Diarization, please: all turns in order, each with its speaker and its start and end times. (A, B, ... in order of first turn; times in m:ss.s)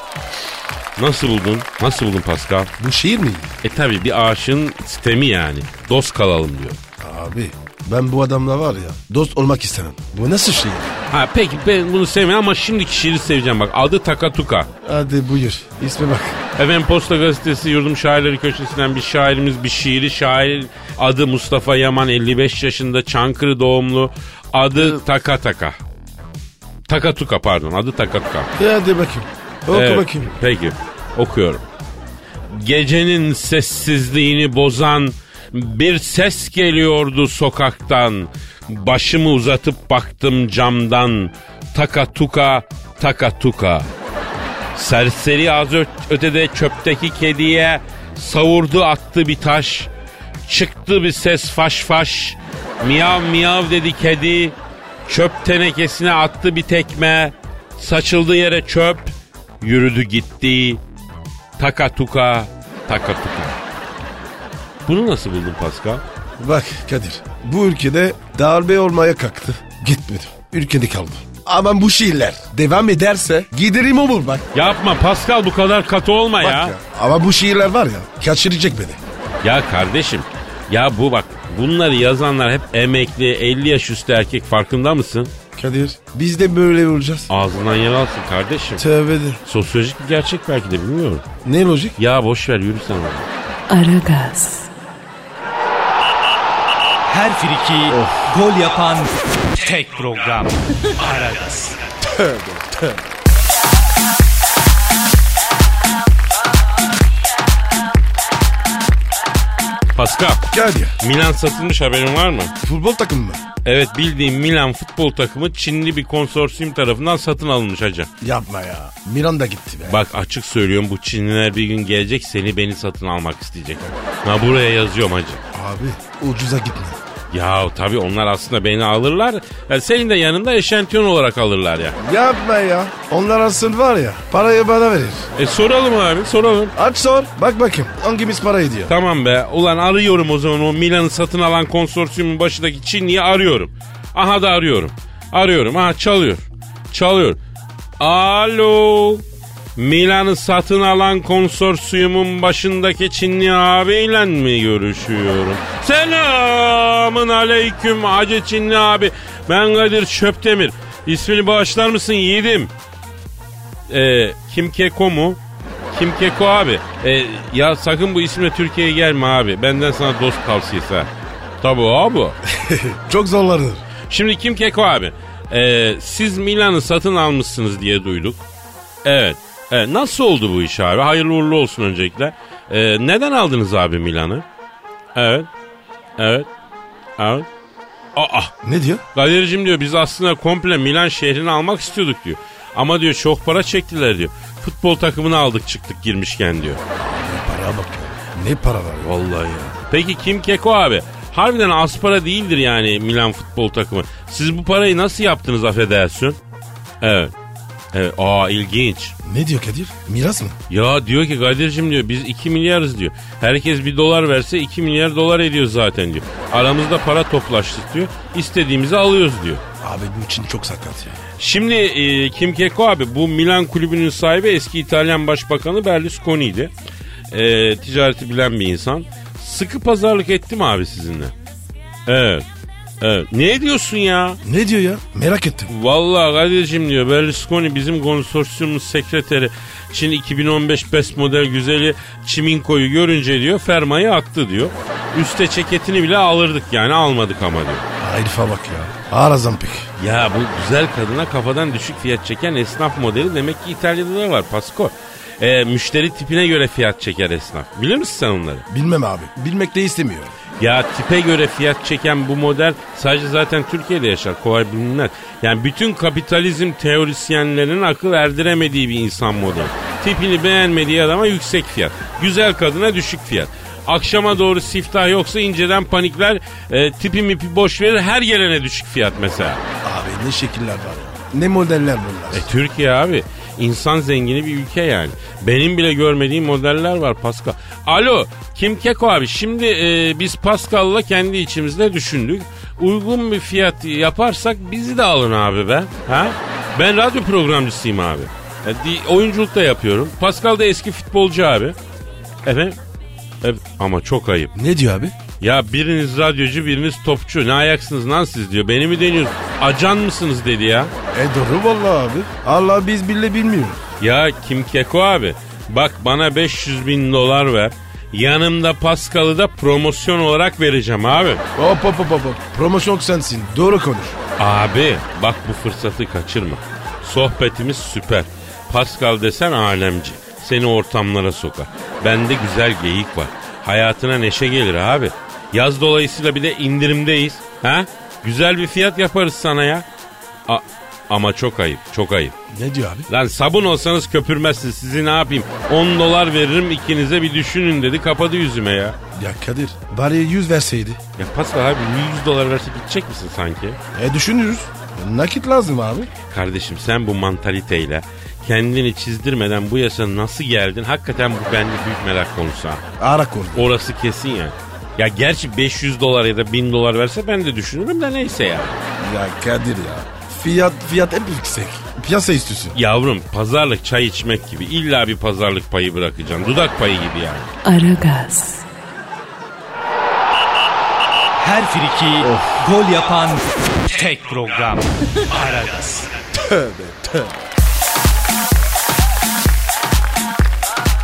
0:01.0-0:02.7 A
0:02.8-0:03.5 B
0:03.6-0:06.8 A
0:07.0-0:11.0 B
0:11.1-0:14.7 A
0:14.8-0:16.4 B
0:16.6-0:25.8 A
0:26.9-0:28.5 A
0:28.6-0:30.3 B
0:29.7-0:31.6 A
0:32.5-0:43.9 A
0:44.7-0:49.9 A
0:50.5-0:54.6 A
0:55.1-1:00.8 A
1:01.6-1:03.6 A
1:04.9-1:06.0 A
1:06.4-1:14.5 B
1:14.5-1:16.8 A
1:16.4-1:19.0 B
1:19.4-1:25.3 A
1:25.6-1:27.3 B
1:27.3-1:28.8 A
1:28.8-1:29.4 B
1:29.5-1:31.2 A
1:31.4-1:32.0 B
1:32.0-1:33.3 A
1:33.7-1:34.7 C
1:37.1-1:41.8 D
1:37.9-1:38.3 B
1:42.1-1:43.0 B
1:50.0-1:50.5 A
1:50.5-1:50.9 B
1:51.0-1:52.5 A
1:52.6-1:53.4 B
1:53.6-1:58.1 A
1:58.2-2:00.0 B
1:59.9-2:05.4 A
2:05.5-2:07.0 B
2:07.3-2:12.0 A
2:12.0-2:15.3 B
2:15.4-2:16.8 A
2:16.8-2:18.9 B
2:18.9-2:27.4 A
2:28.0-2:29.2 A
2:29.8-2:42.7 A
2:43.9-2:45.4 A
2:45.9-2:51.1 A
2:51.6-2:52.4 A
2:52.6-2:53.8 B
2:54.1-2:58.4 A
2:59.0-3:04.4 A
3:05.2-3:05.5 A
3:06.2-3:06.5 A
3:07.2-3:07.5 A
3:08.2-3:08.5 A
3:08.6-3:09.0 B
3:09.2-3:16.8 A
3:17.0-3:19.1 B
3:19.0-3:26.4 A
3:27.0-3:27.3 A
3:27.9-3:29.2 A
3:29.2-3:30.6 B
3:30.7-3:39.6 A
3:39.8-3:41.2 B
3:41.4-3:46.7 A
3:47.3-3:51.3 A
3:52.1-3:52.4 A
3:53.0-3:54.4 A
3:54.4-3:55.7 B
3:55.7-4:07.8 A
4:08.0-4:09.9 B
4:10.0-4:18.7 A
4:18.7-4:20.3 B
4:20.6-4:39.6 A
4:39.8-4:42.4 B
4:42.3-5:01.8 A
5:02.4-5:02.8 A
5:03.4-5:04.5 A
5:04.6-5:05.2 B
5:05.4-5:10.9 A
5:11.1-5:13.8 B
5:14.0-5:21.4 A
5:21.6-5:24.2 B
5:24.4-5:39.9 A
5:40.5-5:42.4 A
5:42.5-5:43.1 B
5:43.1-5:49.0 A
5:49.2-5:51.0 B
5:51.2-5:53.8 A
5:54.0-5:56.1 B
5:56.3-6:02.8 A
6:03.0-6:03.7 B
6:03.6-6:08.8 A
6:09.0-6:12.8 B
6:12.8-6:17.5 A
6:17.6-6:18.6 C
6:21.4-6:26.1 D
6:22.2-6:22.6 B
6:26.4-6:27.3 B